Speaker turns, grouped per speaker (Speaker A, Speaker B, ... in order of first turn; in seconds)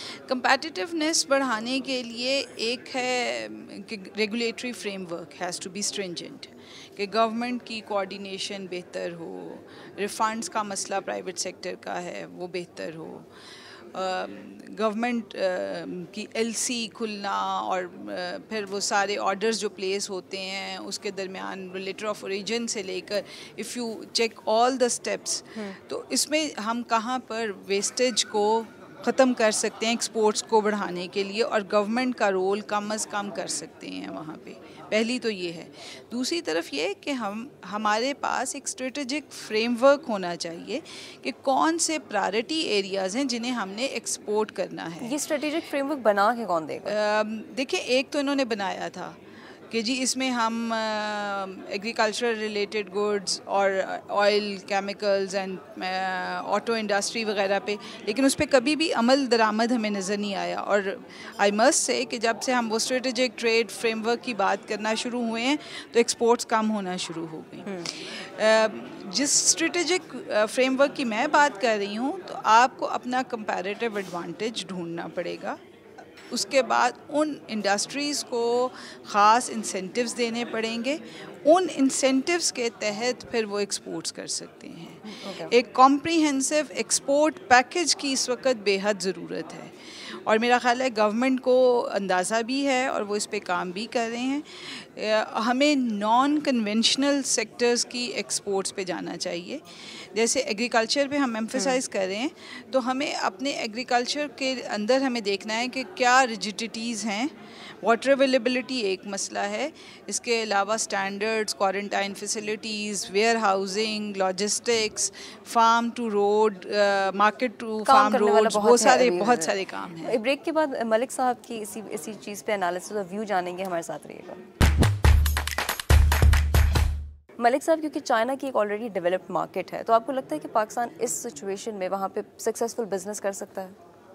Speaker A: 0.3-13.3, 13.9-45.1, 46.9-49.1, 49.7-75.6, 76.3-89.7, 90.2-99.6, 100.1-120.2
Speaker B: 45.0-47.0, 85.0-85.5, 101.5-101.8, 117.8-119.5, 120.0-124.4, 127.4-133.7